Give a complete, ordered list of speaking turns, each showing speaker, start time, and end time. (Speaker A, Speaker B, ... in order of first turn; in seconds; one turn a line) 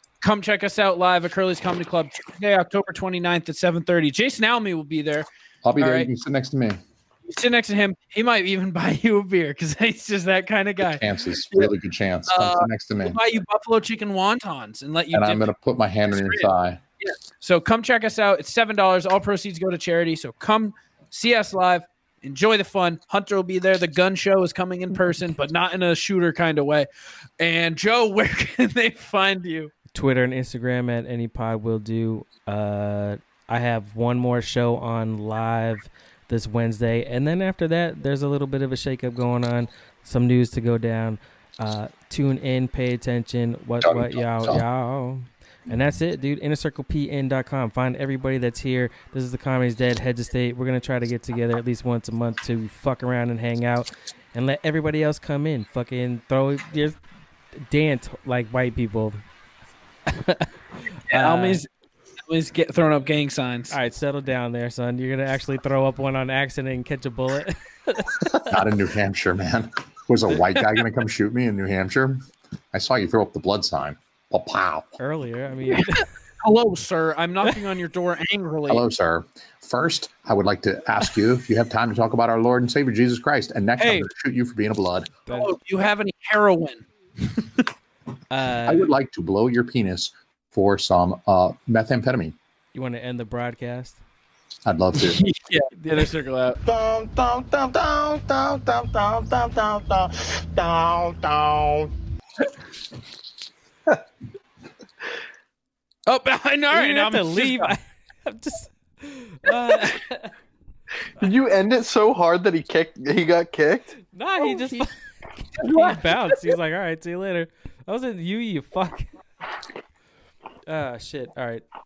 Speaker A: 0.2-6.1
Speaker B: 5.6-6.8
Speaker A: 7.3-11.7
Speaker B: 11.0-13.2
Speaker A: 12.3-15.5
Speaker B: 15.1-16.8
Speaker A: 16.1-26.9
Speaker A: 27.4-29.7
Speaker C: 29.9-57.0
Speaker B: 43.8-44.6
Speaker C: 57.6-59.2
Speaker C: 60.1-60.5
Speaker C: 61.1-61.6
Speaker A: 61.1-61.7
Speaker A: 62.3-63.8
Speaker C: 63.7-68.3
Speaker B: 68.5-74.9
Speaker C: 75.0-76.0
Speaker A: 75.7-78.8
Speaker B: 78.7-85.1
Speaker A: 83.8-84.1
Speaker C: 85.3-85.5
Speaker A: 85.3-87.5
Speaker C: 88.3-88.9
Speaker B: 88.7-92.3
Speaker C: 92.7-94.0
Speaker B: 94.7-95.3
Speaker A: 95.0-96.6
Speaker D: 96.7-101.9
Speaker A: 106.1-107.7
Speaker C: 106.7-110.3
Speaker E: 111.2-113.9
Speaker C: 114.1-119.1
Speaker A: 114.4-114.8
Speaker A: 115.6-116.5
Speaker C: 120.7-121.6